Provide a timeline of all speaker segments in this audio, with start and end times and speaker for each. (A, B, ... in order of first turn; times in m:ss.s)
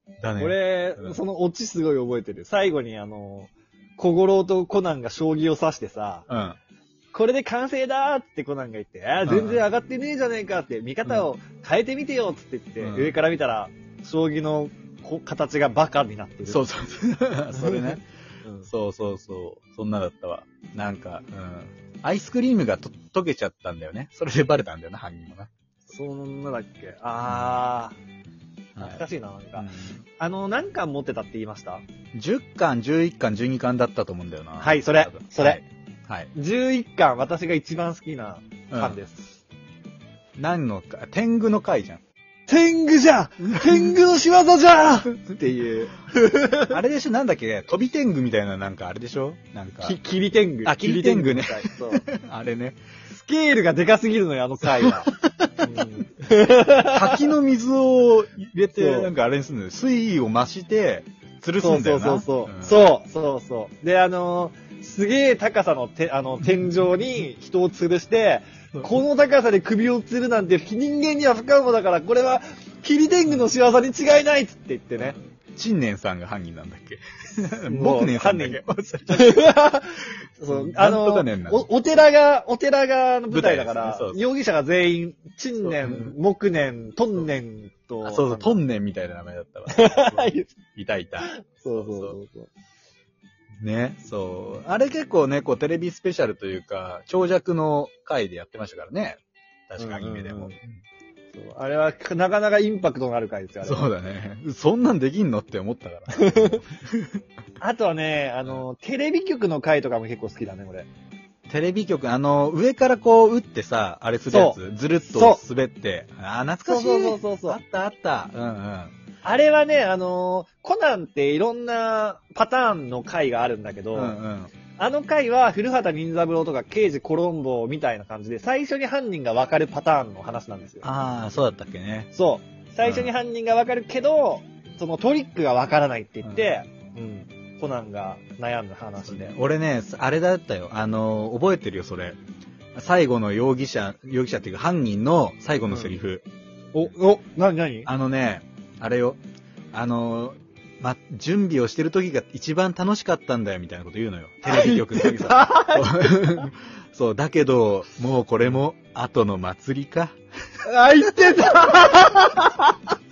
0:00.2-0:01.2 A
0:00.4-0:06.3 B
0:06.3-0:06.6 A
0:07.1-0:16.6 B
0:09.2-0:09.6 A
0:12.8-0:13.1 A
0:16.5-0:18.0 A
0:17.6-0:17.9 B
0:18.4-0:18.7 B
0:18.7-0:25.5 A
0:25.9-0:28.0 B
0:27.2-0:27.6 A
0:28.8-0:29.0 A
0:28.8-0:29.7 B
0:29.6-0:30.0 A
0:30.2-0:31.8 B
0:32.1-0:36.3 A
0:34.6-0:35.6 B
0:36.3-0:39.4 B
0:38.7-0:39.0 A
0:40.4-0:42.0 A
0:42.5-0:46.8 B
0:46.7-0:50.0 A
0:49.8-0:52.0 B
0:50.6-0:52.8 A
0:53.1-0:57.2 B
0:55.1-0:55.6 A
0:56.8-1:02.8 A
0:58.7-0:59.1 B
1:01.6-1:15.2 B
1:15.6-1:19.6 A
1:17.7-1:28.6 B
1:20.5-1:21.7 A
1:23.3-1:24.2 A
1:25.6-1:26.2 A
1:28.0-1:32.2 A
1:29.7-1:30.5 B
1:31.2-1:32.5 B
1:33.6-1:40.8 A
1:39.8-1:40.6 B
1:41.3-1:43.9 B
1:43.6-1:47.1 A
1:46.1-1:46.5 B
1:47.6-1:50.9 B
1:51.5-1:58.9 A
1:54.3-1:54.6 B
1:55.1-1:55.4 B
1:56.6-1:57.6 B
1:59.2-2:04.2 B
2:03.9-2:04.5 A
2:04.8-2:10.9 B
2:10.8-2:12.1 A
2:12.1-2:19.3 B
2:12.8-2:13.1 A
2:19.0-2:22.2 A
2:22.8-2:26.2 A
2:25.7-2:26.0 B
2:26.7-2:27.9 B
2:27.9-2:29.2 A
2:29.7-2:40.2 A
2:34.4-2:36.4 B
2:40.7-2:42.8 B